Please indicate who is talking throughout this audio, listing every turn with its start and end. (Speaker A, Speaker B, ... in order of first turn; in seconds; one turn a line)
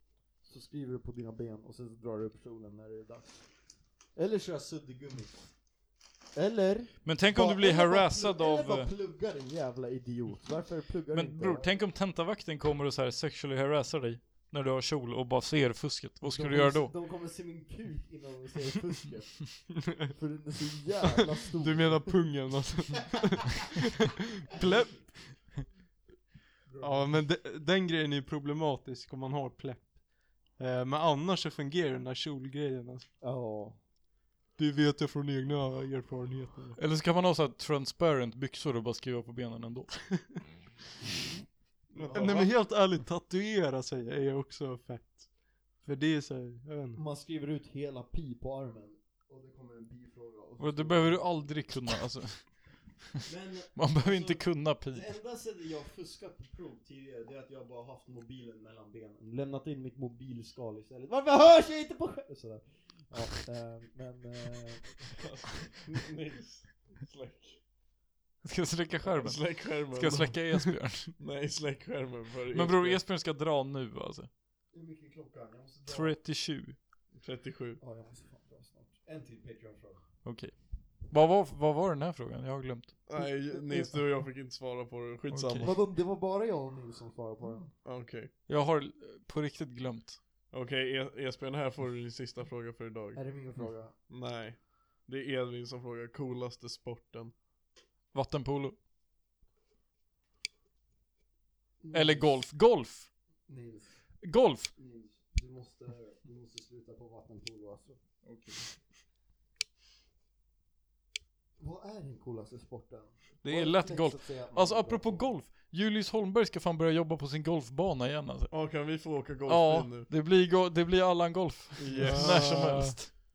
Speaker A: 0.4-3.4
Speaker A: 4.2-5.5
Speaker A: 6.3-11.7
Speaker B: 7.0-8.9
Speaker B: 11.1-16.9
Speaker A: 16.3-22.1
Speaker C: 21.6-23.8
Speaker C: 24.5-25.3
Speaker A: 26.7-27.1
Speaker C: 26.8-33.1
Speaker A: 33.2-33.8
Speaker C: 34.6-36.8
Speaker B: 36.8-40.4
Speaker D: 41.9-42.5
Speaker A: 42.0-42.3
Speaker C: 42.1-47.0
Speaker A: 47.0-51.5
Speaker B: 50.6-52.8
Speaker A: 53.2-65.1
Speaker B: 53.8-55.1
Speaker D: 65.2-67.6
Speaker B: 68.4-71.1
Speaker D: 69.0-70.4
Speaker D: 71.2-73.0
Speaker B: 72.5-74.3
Speaker A: 74.7-76.2
Speaker B: 75.8-76.8
Speaker D: 77.2-77.8
Speaker A: 77.8-80.0
Speaker B: 80.2-83.0
Speaker D: 83.0-85.8
Speaker B: 85.3-85.7
Speaker A: 85.6-87.7
Speaker D: 87.8-88.3
Speaker B: 88.5-90.2
Speaker D: 90.5-93.3
Speaker A: 93.1-93.9
Speaker D: 94.1-97.3
Speaker B: 98.1-98.8
Speaker A: 101.8-102.3
Speaker B: 101.9-103.1
Speaker A: 103.5-104.1
Speaker B: 104.2-104.7
Speaker A: 104.7-108.0
Speaker B: 108.2-108.6
Speaker A: 111.6-115.3
Speaker B: 113.4-118.5
Speaker D: 118.5-120.1
Speaker B: 119.5-123.1
Speaker D: 121.8-122.7
Speaker C: 121.9-123.0